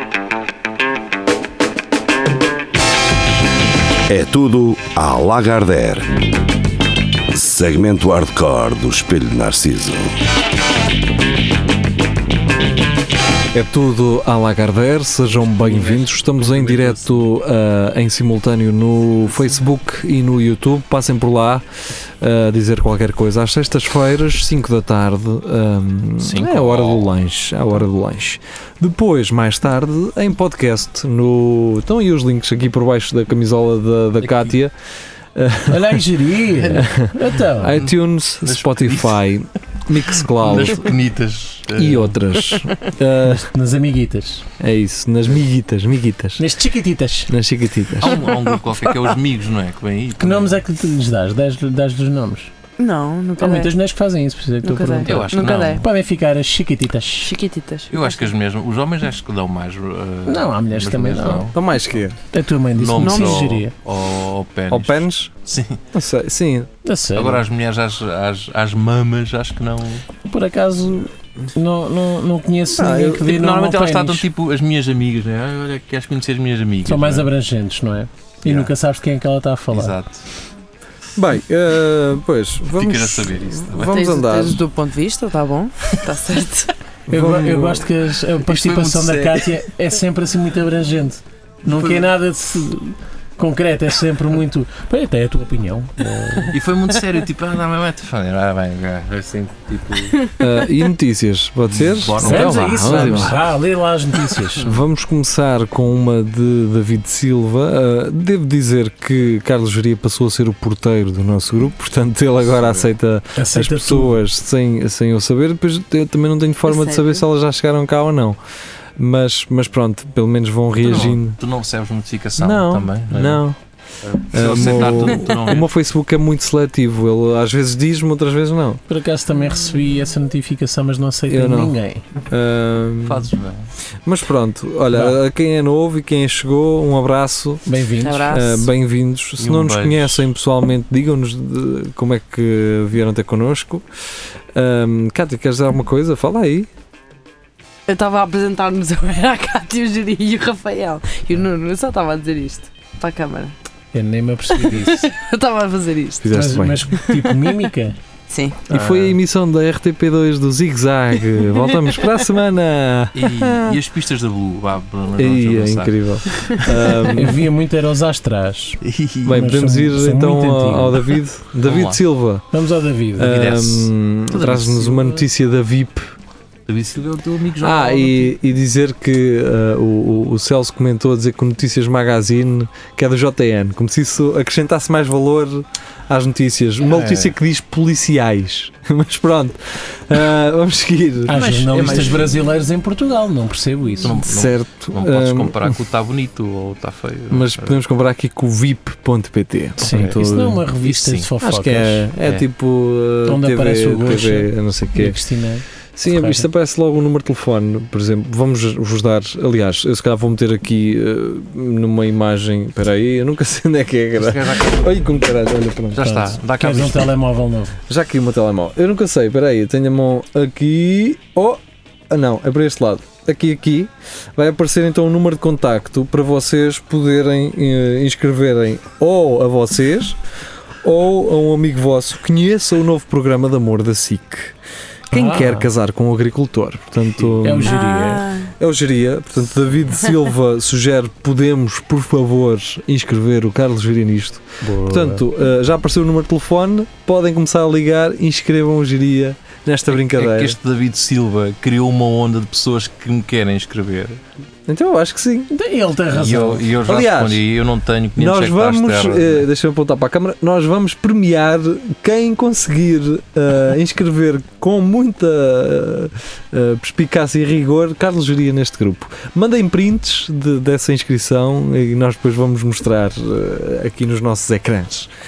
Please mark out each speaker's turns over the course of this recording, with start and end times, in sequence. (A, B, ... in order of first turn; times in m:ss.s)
0:04.1-0:06.2 A
0:07.3-0:10.1 A
0:13.5-0:21.6 B
0:15.3-0:17.2 C
0:22.2-0:34.7 B
0:26.2-0:27.2 C
0:34.2-0:34.6 C
0:35.3-0:36.0 B
0:35.7-0:37.8 D
0:36.6-0:41.0 B
0:38.4-0:39.2 C
0:40.1-0:42.6 C
0:41.7-0:43.5 B
0:43.2-0:44.5 D
0:44.6-0:46.4 B
0:46.4-0:47.3 D
0:47.3-0:48.2 B
0:48.0-0:50.6 C
0:48.0-0:49.1 E
0:50.2-0:52.5 D
0:52.8-0:53.7 E
0:53.4-0:57.3 D
0:54.6-0:55.8 E
0:55.0-0:55.9 C
0:57.2-0:58.2 E
0:57.9-1:01.6 C
1:00.3-1:01.5 D
1:01.4-1:02.2 B
1:02.3-1:03.7 D
1:02.8-1:05.8 C
1:03.0-1:03.5 E
1:04.7-1:05.3 B
1:05.9-1:06.7 B
1:06.8-1:07.4 D
1:07.1-1:10.0 C
1:10.3-1:14.3 D
1:12.8-1:13.3 B
1:13.2-1:17.3 C
1:16.8-1:20.0 D
1:18.4-1:18.7 C
1:19.7-1:20.2 C
1:21.2-1:24.6 B
1:22.7-1:24.0 C
1:23.8-1:26.7 E
1:27.1-1:27.9 B
1:27.1-1:36.5 D
1:28.4-1:29.5 C
1:31.7-1:32.1 C
1:36.5-1:40.4 C
1:40.4-1:43.4 B
1:41.7-1:43.4 C
1:42.2-1:44.7 D
1:44.6-1:58.4 B
1:52.6-1:52.9 C
1:53.4-1:54.2 D
1:56.6-1:57.2 E
1:59.0-2:01.4 B
2:00.8-2:03.4 C
2:02.4-2:03.6 B
2:04.0-2:05.7 C
2:04.3-2:08.8 B
2:08.9-2:12.0 D
2:11.3-2:11.8 B
2:12.3-2:13.3 B
2:13.0-2:13.7 C
2:14.0-2:17.6 B
2:14.9-2:15.2 D
2:17.6-2:18.4 D
2:18.0-2:18.7 E
2:18.2-2:23.8 B
2:19.4-2:20.3 C
2:24.5-2:26.7 B
2:27.9-2:33.5 E
2:33.9-2:35.1 D
2:34.5-2:36.3 E
2:36.2-2:36.9 B
2:36.3-2:38.0 D
2:36.9-2:37.6 E
2:38.3-2:38.6 E
2:38.7-2:39.2 D
2:38.7-2:43.8 B
2:43.1-2:47.1 C
2:45.2-2:47.4 B
2:47.1-2:51.1 D
2:48.8-2:49.4 C
2:49.2-2:52.4 B
2:51.6-2:52.0 C
2:52.5-2:53.4 D
2:53.2-2:56.2 B
2:53.2-2:55.2 C
2:56.7-2:58.4 C
2:57.6-3:11.4 B
3:06.8-3:07.3 C
3:11.3-3:14.2 D
3:11.3-3:12.4 C
3:14.0-3:17.8 C
3:14.2-3:15.8 B
3:17.3-3:20.6 B
3:19.8-3:20.2 C
3:19.8-3:22.0 D
3:20.8-3:21.3 C
3:21.4-3:25.2 B
3:23.2-3:26.5 D
3:26.0-3:36.2 B
3:34.2-3:35.2 C
3:35.9-3:37.1 C
3:36.0-3:37.8 D
3:37.9-3:50.2 B
3:50.8-3:54.5 B
3:55.1-3:55.7 D
3:55.1-3:57.8 B
3:57.2-3:57.4 C
3:57.4-3:58.3 D
3:57.6-3:58.5 E
3:58.6-4:10.6 B
4:04.6-4:05.2 D
4:09.9-4:14.2 C
4:14.7-4:15.5 B
4:15.5-4:16.8 D
4:16.1-4:19.4 C
4:16.8-4:17.4 B
4:18.2-4:35.1 B